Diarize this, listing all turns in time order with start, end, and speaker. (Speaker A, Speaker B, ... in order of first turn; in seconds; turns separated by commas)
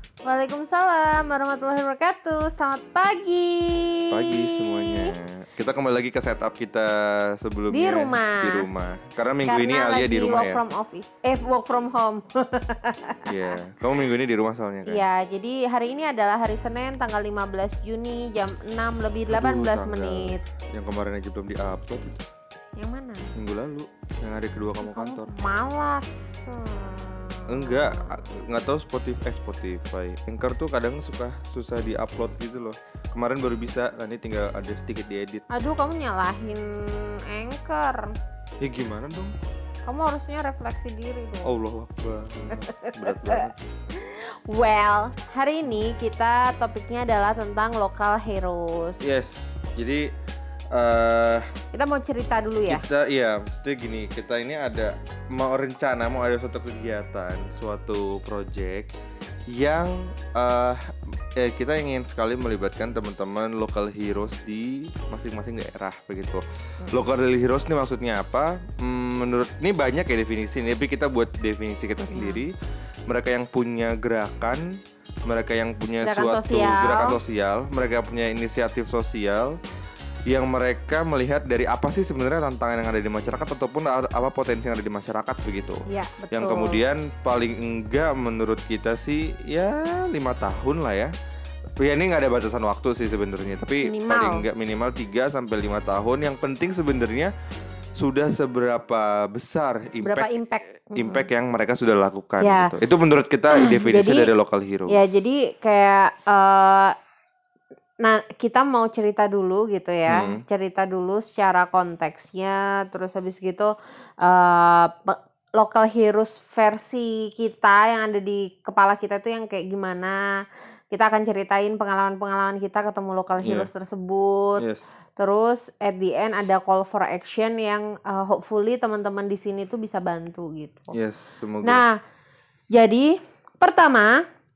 Speaker A: 0.2-5.1, Speaker B: 4.1-10.6, Speaker A: 7.7-8.7, Speaker A: 9.5-13.2, Speaker B: 13.3-15.0, Speaker A: 14.9-20.4, Speaker B: 19.3-22.3, Speaker A: 22.8-23.3, Speaker B: 23.4-25.3, Speaker A: 24.8-28.2, Speaker B: 27.5-35.4, Speaker A: 35.5-38.1, Speaker B: 38.6-39.4, Speaker A: 39.8-41.5, Speaker B: 41.5-43.5, Speaker A: 42.6-49.1, Speaker B: 49.0-50.1, Speaker B: 50.7-51.5, Speaker A: 51.7-52.8, Speaker B: 52.7-58.9, Speaker B: 59.5-60.8, Speaker B: 61.4-72.5, Speaker A: 72.0-72.4, Speaker B: 73.1-74.7, Speaker B: 75.3-79.6, Speaker A: 76.0-77.2, Speaker B: 80.3-85.8, Speaker A: 85.9-86.8, Speaker B: 86.3-91.1, Speaker B: 91.8-97.3, Speaker A: 93.8-94.5, Speaker B: 98.0-100.3, Speaker A: 100.0-101.2, Speaker B: 101.0-105.0, Speaker A: 102.4-102.7, Speaker A: 103.6-104.3, Speaker A: 104.9-107.0, Speaker A: 108.0-120.2, Speaker B: 110.1-110.4, Speaker A: 120.9-124.6, Speaker B: 123.4-123.7, Speaker A: 125.2-130.9, Speaker B: 130.9-131.8, Speaker A: 131.6-131.9, Speaker A: 132.7-134.2